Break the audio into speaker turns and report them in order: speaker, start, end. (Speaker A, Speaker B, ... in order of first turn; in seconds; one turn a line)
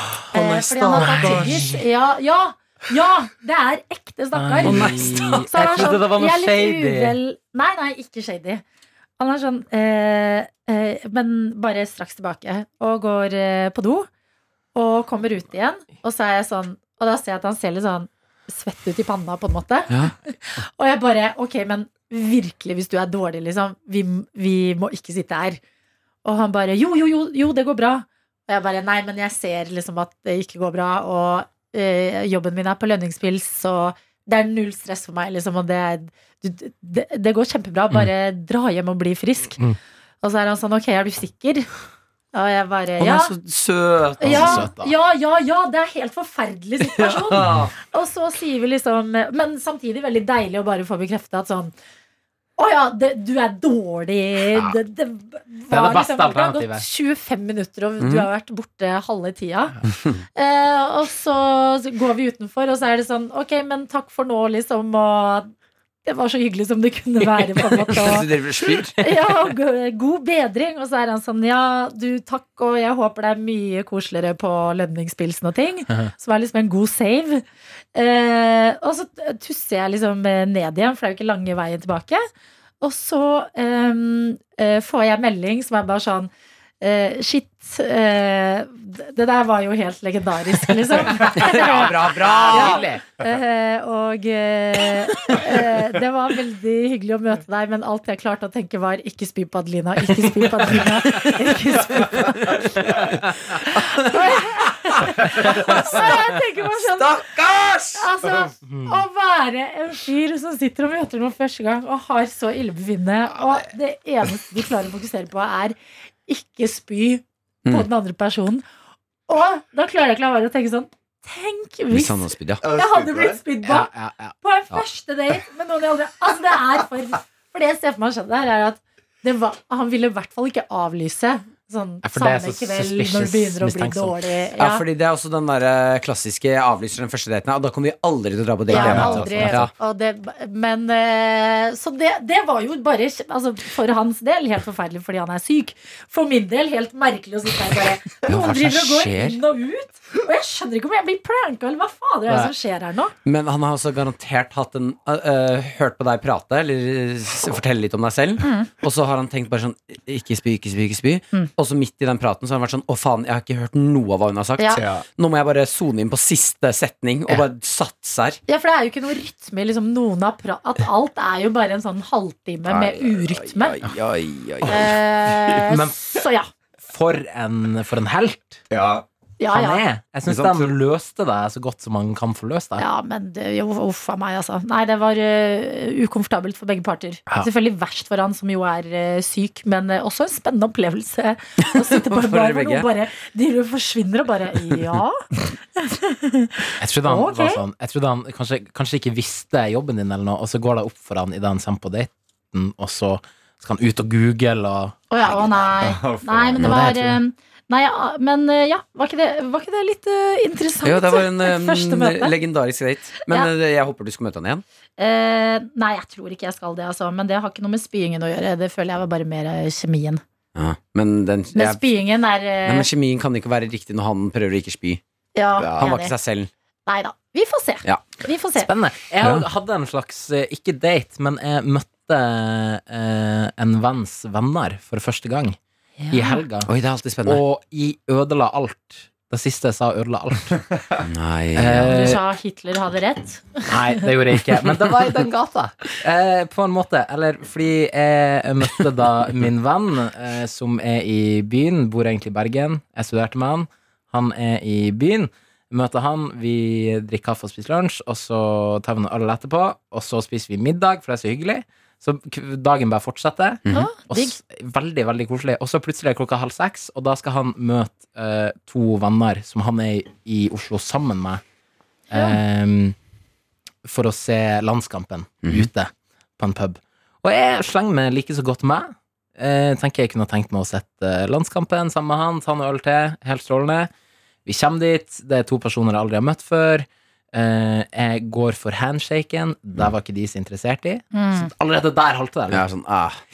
Speaker A: 0.2-1.7
Speaker B: 0.3-8.6
Speaker C: 0.9-1.8
Speaker C: 4.4-7.2
Speaker A: 4.6-5.9
Speaker B: 9.2-14.1
Speaker B: 14.8-25.6
Speaker B: 26.2-39.6
Speaker B: 40.2-41.7
Speaker B: 42.3-43.3
Speaker A: 43.0-44.7
Speaker B: 44.2-51.7
Speaker C: 44.2-44.9
Speaker A: 46.8-47.7
Speaker B: 52.6-59.8
Speaker C: 55.7-56.8
Speaker A: 58.0-58.3
Speaker A: 59.9-60.2
Speaker B: 60.4-65.5
Speaker B: 66.0-68.3
Speaker A: 67.7-69.1
Speaker B: 69.0-77.4
Speaker B: 78.0-82.2
Speaker B: 82.8-86.3
Speaker B: 86.8-102.7
Speaker A: 91.1-92.8
Speaker C: 91.2-91.5
Speaker C: 92.5-93.0
Speaker A: 101.1-108.1
Speaker C: 103.0-103.3
Speaker B: 103.5-107.2
Speaker B: 108.0-118.7
Speaker C: 108.7-109.0
Speaker B: 119.3-123.9
Speaker A: 121.9-122.6
Speaker D: 122.6-123.4
Speaker C: 123.6-124.3
Speaker B: 124.4-134.8
Speaker C: 132.0-134.2
Speaker A: 134.6-139.7
Speaker B: 138.7-153.1
Speaker D: 138.8-139.4
Speaker C: 138.8-139.6
Speaker A: 148.2-149.4
Speaker A: 153.2-168.4
Speaker B: 158.4-158.7
Speaker B: 164.6-164.8
Speaker D: 164.8-165.1
Speaker B: 168.5-173.8
Speaker A: 172.7-175.0
Speaker B: 174.7-176.5
Speaker D: 175.3-175.7
Speaker C: 175.7-176.0
Speaker C: 176.8-178.6
Speaker D: 178.7-179.1
Speaker B: 179.4-179.8
Speaker C: 179.5-182.8
Speaker D: 180.3-180.7
Speaker B: 182.8-197.6
Speaker A: 191.7-192.9
Speaker C: 196.8-205.0
Speaker B: 205.1-212.3
Speaker D: 205.8-206.8
Speaker C: 206.6-207.2
Speaker A: 210.8-214.6
Speaker B: 215.0-220.2
Speaker A: 220.6-221.8
Speaker B: 221.6-222.9
Speaker A: 222.7-225.0
Speaker B: 225.3-226.1
Speaker A: 225.6-226.5
Speaker B: 226.9-228.7
Speaker C: 228.6-235.6
Speaker B: 236.0-236.4
Speaker C: 236.1-236.7
Speaker A: 236.7-237.4
Speaker C: 237.2-240.6
Speaker D: 240.6-241.0
Speaker A: 241.0-242.1
Speaker C: 241.6-242.2
Speaker B: 241.9-243.9
Speaker C: 243.7-271.4
Speaker B: 263.7-264.4
Speaker C: 272.1-273.0
Speaker B: 272.1-272.4
Speaker C: 273.9-283.9
Speaker C: 284.5-292.7
Speaker B: 291.1-291.5
Speaker A: 292.5-293.2